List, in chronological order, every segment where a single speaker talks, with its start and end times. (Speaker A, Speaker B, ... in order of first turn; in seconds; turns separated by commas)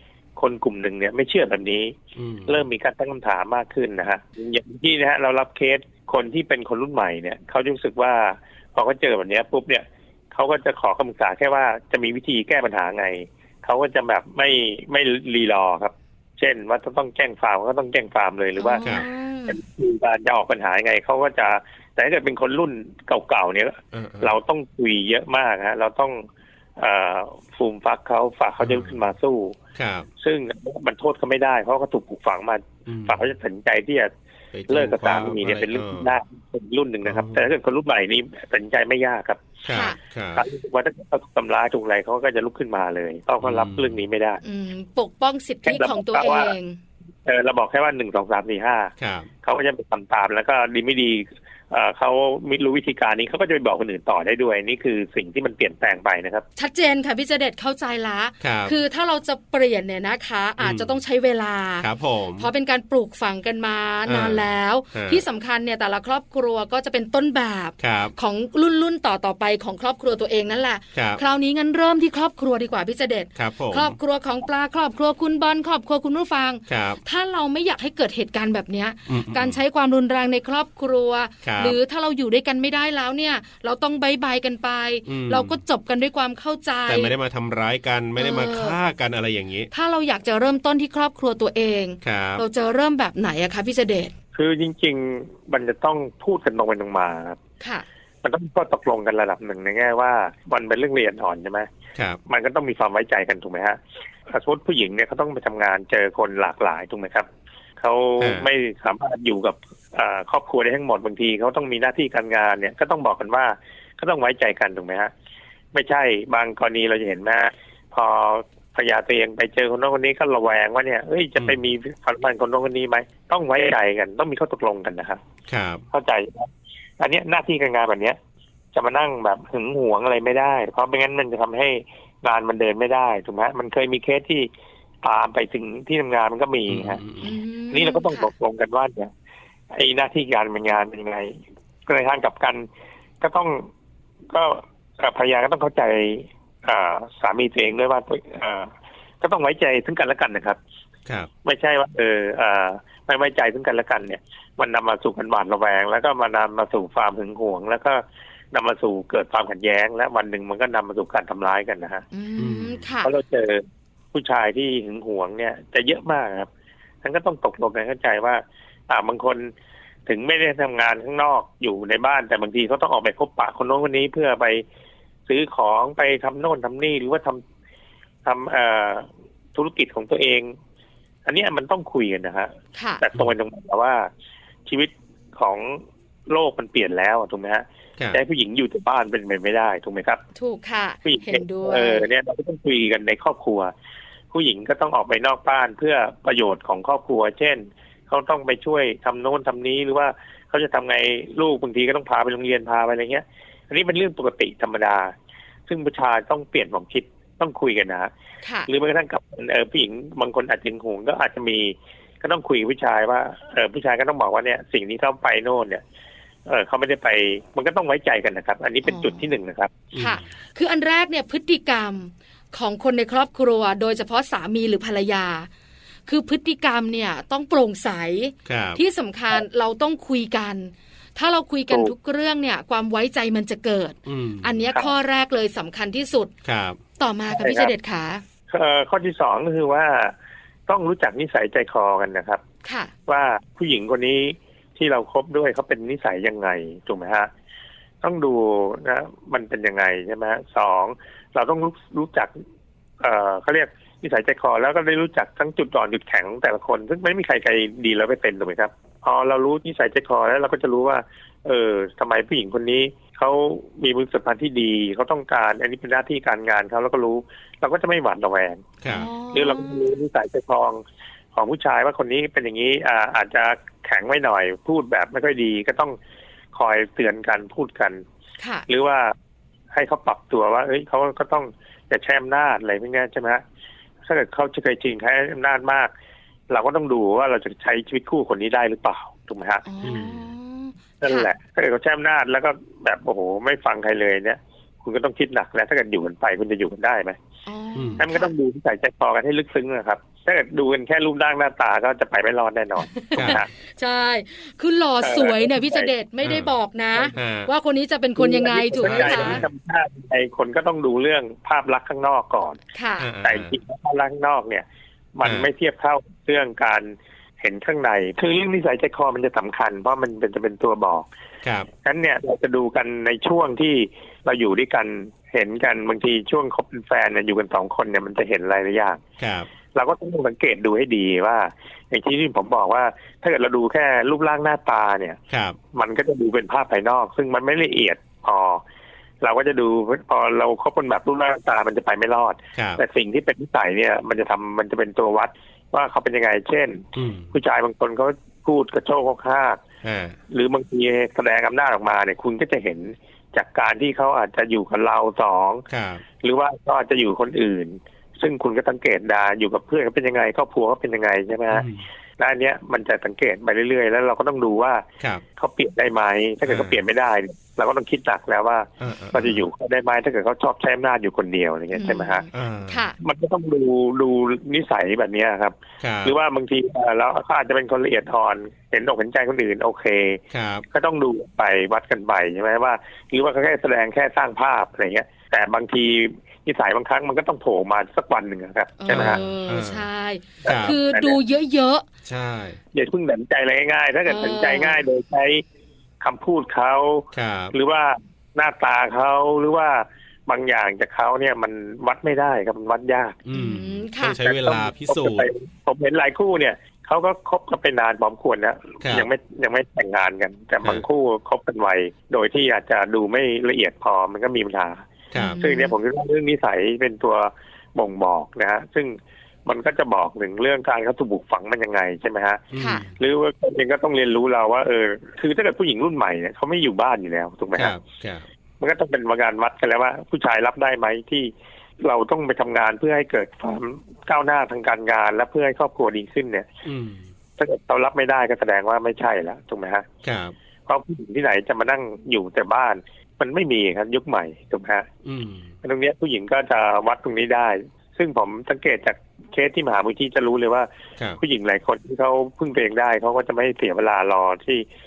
Speaker A: 0.4-18.9, Speaker B: 2.2-2.7, Speaker C: 18.6-19.6, Speaker A: 19.5-26.2, Speaker B: 23.9-24.4, Speaker A: 26.8-29.6, Speaker B: 28.6-29.0, Speaker B: 29.8-30.1, Speaker A: 30.2-34.1, Speaker B: 32.9-33.2, Speaker B: 34.5-36.1, Speaker A: 34.7-39.5, Speaker B: 37.0-37.5, Speaker B: 39.6-40.5, Speaker C: 39.7-40.0, Speaker A: 40.4-44.4, Speaker B: 43.4-44.0, Speaker C: 44.4-46.8, Speaker A: 45.6-46.5, Speaker A: 47.2-48.9, Speaker B: 49.0-49.3, Speaker A: 49.4-56.5, Speaker C: 56.6-87.1, Speaker B: 58.4-58.8, Speaker B: 60.6-61.0, Speaker B: 61.8-62.5, Speaker B: 64.1-65.2, Speaker B: 67.8-68.1, Speaker B: 70.9-71.2, Speaker B: 73.4-74.0, Speaker B: 76.7-77.0, Speaker B: 79.1-79.6, Speaker B: 81.4-81.8, Speaker B: 85.1-85.6, Speaker B: 86.9-89.7, Speaker C: 88.2-88.8, Speaker C: 89.7-94.1, Speaker B: 92.0-92.4, Speaker A: 94.3-97.4, Speaker C: 97.6-97.9, Speaker A: 98.2-101.7, Speaker A: 102.3-107.3, Speaker A: 107.8-115.1, Speaker B: 108.2-108.5, Speaker A: 115.7-125.2, Speaker B: 125.5-125.8, Speaker A: 125.9-128.2, Speaker A: 128.7-134.5, Speaker A: 135.0-137.0, Speaker B: 136.7-137.4, Speaker C: 137.2-138.3, Speaker A: 137.7-139.1, Speaker A: 139.7-141.4, Speaker A: 141.9-142.7, Speaker A: 143.2-143.7, Speaker A: 144.3-148.7, Speaker A: 149.2-150.6, Speaker A: 151.4-162.0, Speaker C: 162.1-163.1, Speaker B: 162.4-162.8, Speaker A: 163.0-166.5, Speaker A: 167.0-169.5, Speaker A: 170.1-174.7, Speaker A: 175.3-177.4, Speaker A: 178.2-180.5, Speaker A: 181.3-184.1, Speaker C: 182.8-183.0, Speaker A: 184.7-190.2, Speaker C: 190.4-192.1, Speaker A: 191.0-193.7, Speaker A: 194.3-205.1, Speaker A: 205.7-208.1, Speaker C: 208.4-208.7, Speaker A: 208.7-215.8, Speaker A: 216.5-219.7, Speaker C: 218.8-219.3, Speaker B: 219.9-220.2, Speaker C: 220.0-225.5, Speaker C: 226.1-236.3, Speaker B: 228.4-228.8, Speaker B: 234.1-234.6, Speaker B: 236.4-236.8, Speaker C: 237.0-238.2, Speaker A: 237.3-237.7, Speaker A: 238.5-240.1, Speaker A: 240.7-242.4, Speaker C: 242.6-242.9, Speaker A: 243.1-247.3, Speaker A: 248.0-252.3, Speaker A: 253.0-268.8, Speaker B: 268.8-269.1, Speaker C: 268.9-269.9, Speaker A: 269.3-270.8, Speaker A: 271.4-276.0, Speaker A: 276.5-278.0, Speaker C: 278.4-278.7, Speaker A: 278.7-279.1, Speaker A: 279.7-283.4, Speaker A: 284.1-285.9, Speaker A: 286.5-289.6, Speaker C: 289.7-291.3, Speaker B: 289.8-290.3, Speaker A: 291.0-297.2, Speaker C: 297.5-298.3, Speaker B: 297.8-298.0, Speaker A: 298.0-303.5, Speaker C: 302.8-309.4, Speaker B: 303.2-303.4, Speaker A: 305.0-305.9, Speaker B: 306.2-306.5, Speaker B: 307.1-307.5, Speaker A: 308.2-312.6, Speaker B: 308.8-309.5, Speaker C: 312.8-313.1, Speaker B: 313.0-313.5, Speaker A: 313.2-321.1, Speaker B: 321.4-321.7, Speaker A: 321.8-329.0, Speaker B: 329.2-329.5, Speaker A: 329.7-335.2, Speaker B: 335.3-335.6, Speaker A: 335.7-338.6, Speaker A: 339.2-349.6, Speaker B: 342.6-342.8, Speaker B: 346.9-347.3, Speaker B: 349.8-350.2, Speaker A: 350.3-355.6, Speaker B: 355.7-356.0, Speaker A: 356.2-361.7, Speaker B: 361.5-361.9, Speaker A: 362.2-364.9, Speaker A: 365.4-372.3, Speaker B: 366.4-366.8, Speaker B: 368.8-369.4, Speaker C: 371.7-373.0, Speaker B: 372.3-372.9, Speaker A: 373.0-389.2, Speaker B: 375.8-376.1, Speaker B: 380.3-380.7, Speaker C: 388.8-391.9, Speaker B: 388.9-389.9, Speaker A: 390.4-391.2, Speaker B: 390.4-390.8, Speaker B: 392.1-392.6, Speaker A: 392.7-395.4, Speaker C: 394.1-394.8, Speaker A: 396.0-403.2, Speaker B: 397.1-397.6, Speaker B: 403.3-405.3, Speaker C: 403.3-404.2, Speaker A: 404.2-414.8, Speaker B: 408.8-409.1, Speaker B: 415.1-415.4, Speaker C: 415.2-415.8, Speaker A: 415.4-422.5, Speaker B: 422.5-422.9, Speaker C: 422.6-422.9, Speaker A: 423.0-427.8, Speaker B: 427.6-428.3, Speaker A: 428.6-436.5, Speaker B: 436.6-437.1, Speaker A: 437.4-439.9, Speaker B: 440.0-440.4, Speaker A: 440.7-444.9, Speaker B: 445.1-445.5, Speaker A: 445.6-450.7, Speaker A: 451.2-454.6